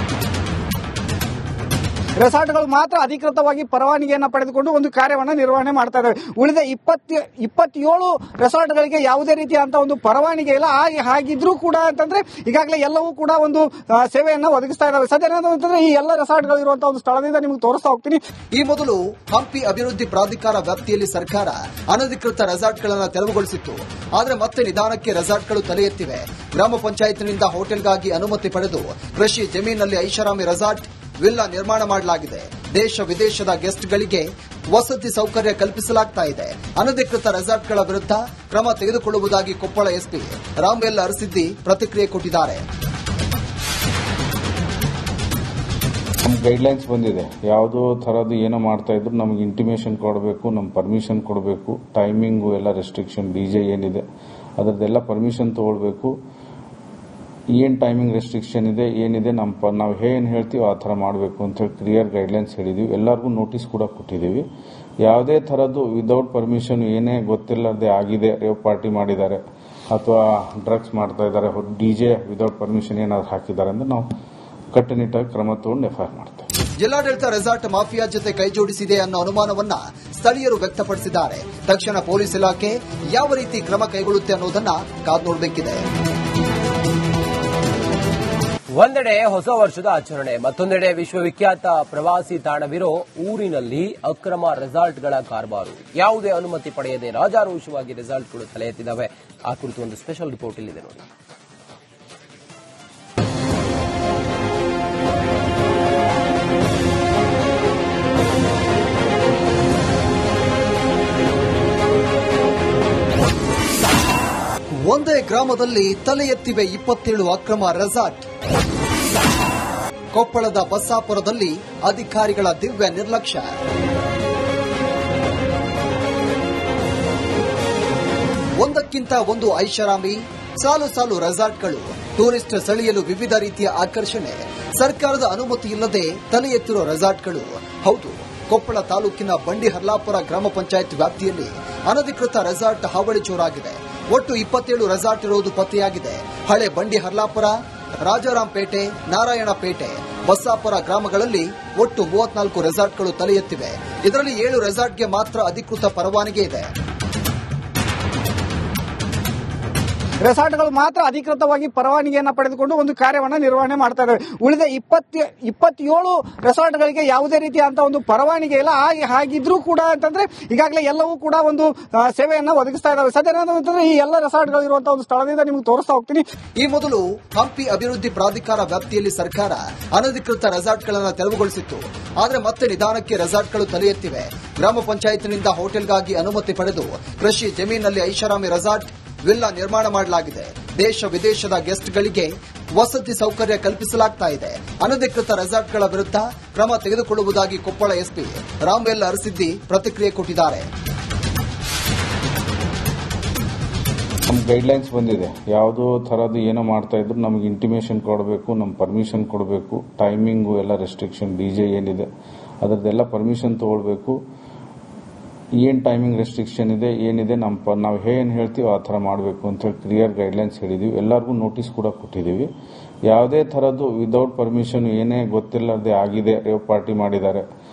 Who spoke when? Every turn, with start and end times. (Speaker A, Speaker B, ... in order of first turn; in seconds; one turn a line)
Speaker A: 2.2-18.2
Speaker B: 18.5-42.6
Speaker C: 46.2-54.0
Speaker C: 54.6-56.1
Speaker C: 57.6-64.5
Speaker C: 65.0-69.4
Speaker C: 69.9-74.1
Speaker C: 74.7-76.5
Speaker B: 76.8-85.9
Speaker D: 88.7-101.0
Speaker B: 114.9-118.3
Speaker B: 120.1-123.5
Speaker B: 128.6-156.7
Speaker A: 160.2-176.2
Speaker B: 176.6-200.7
Speaker C: 204.3-212.1
Speaker C: 212.6-214.2
Speaker C: 215.6-222.5
Speaker C: 223.1-227.4